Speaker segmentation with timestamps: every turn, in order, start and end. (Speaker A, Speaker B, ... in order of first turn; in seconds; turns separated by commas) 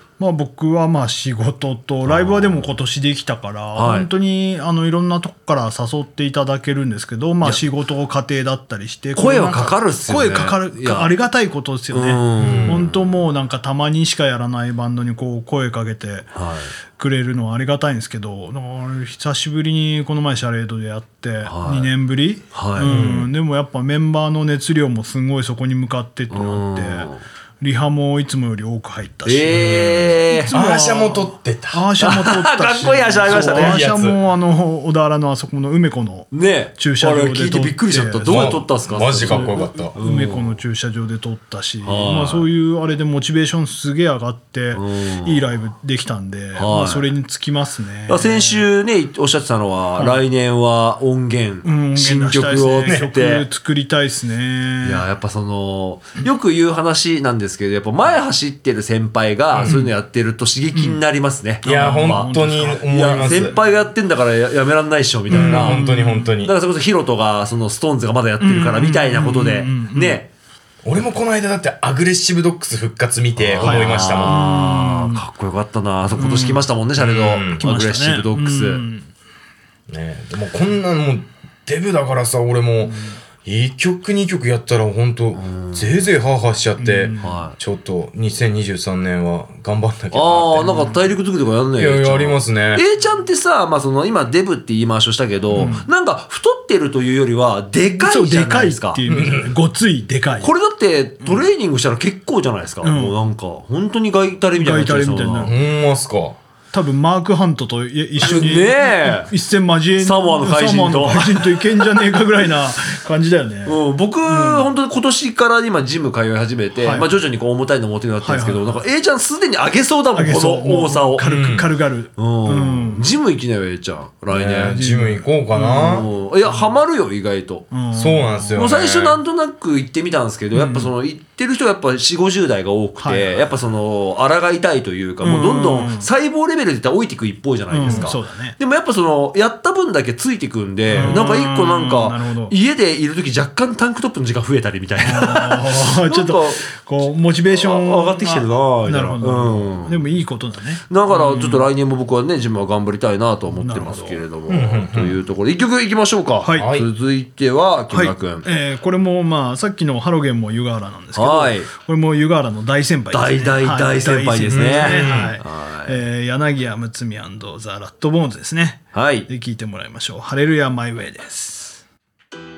Speaker A: 0.2-16.3, Speaker B: 2.0-2.7, Speaker B: 3.8-4.1, Speaker B: 9.2-11.1, Speaker B: 11.9-13.2, Speaker C: 12.4-12.9, Speaker B: 16.4-16.7, Speaker A: 16.9-27.1, Speaker B: 21.4-21.9, Speaker B: 22.5-23.2, Speaker C: 22.9-23.3, Speaker B: 26.3-27.2, Speaker A: 27.6-38.6, Speaker B: 29.2-30.5, Speaker C: 29.5-31.9, Speaker B: 32.0-33.8, Speaker C: 33.2-34.2, Speaker B: 36.3-40.6, Speaker C: 38.2-39.9, Speaker A: 39.1-48.7, Speaker B: 41.8-42.5, Speaker B: 44.7-45.5, Speaker B: 46.6-47.1, Speaker B: 48.1-53.5, Speaker A: 51.6-55.1, Speaker B: 54.8-62.3, Speaker A: 60.7-61.0, Speaker A: 61.6-63.7, Speaker C: 61.6-63.5, Speaker B: 62.9-65.9, Speaker A: 65.3-66.3, Speaker C: 65.3-66.5, Speaker B: 66.4-70.3, Speaker A: 68.4-70.2, Speaker C: 70.8-74.5, Speaker B: 73.4-78.8, Speaker A: 73.6-75.3, Speaker A: 76.2-76.7, Speaker C: 77.0-77.7, Speaker A: 77.5-79.1, Speaker C: 79.9-91.1, Speaker B: 85.3-86.1, Speaker A: 86.8-87.4, Speaker B: 87.2-87.6, Speaker B: 90.1-99.0, Speaker C: 91.8-92.8, Speaker C: 95.5-95.8, Speaker A: 95.5-95.9, Speaker A: 98.0-100.5, Speaker C: 99.1-99.5, Speaker B: 100.4-105.5, Speaker A: 102.8-103.2, Speaker A: 104.6-105.6, Speaker C: 105.4-106.4, Speaker A: 106.7-114.7, Speaker B: 108.2-109.3, Speaker C: 108.2-108.5, Speaker B: 110.0-112.3, Speaker B: 113.7-121.3, Speaker A: 116.8-117.1, Speaker A: 118.2-118.9, Speaker A: 120.2-123.1, Speaker C: 121.2-121.7, Speaker B: 122.2-124.8, Speaker C: 124.3-126.1, Speaker A: 124.7-126.7, Speaker B: 125.8-127.7, Speaker A: 127.7-128.6, Speaker C: 127.9-129.2, Speaker B: 128.6-146.7, Speaker A: 130.5-130.9, Speaker A: 133.0-133.5, Speaker A: 135.2-136.1, Speaker A: 137.7-138.6, Speaker A: 140.9-142.5, Speaker A: 145.0-151.7, Speaker B: 147.5-150.0, Speaker B: 150.9-158.5, Speaker A: 153.6-154.2, Speaker C: 154.5-155.2, Speaker A: 156.4-156.7, Speaker C: 156.6-156.9, Speaker A: 157.9-171.8, Speaker B: 161.2-161.7, Speaker B: 163.1-166.0, Speaker C: 164.5-165.4, Speaker B: 168.9-169.3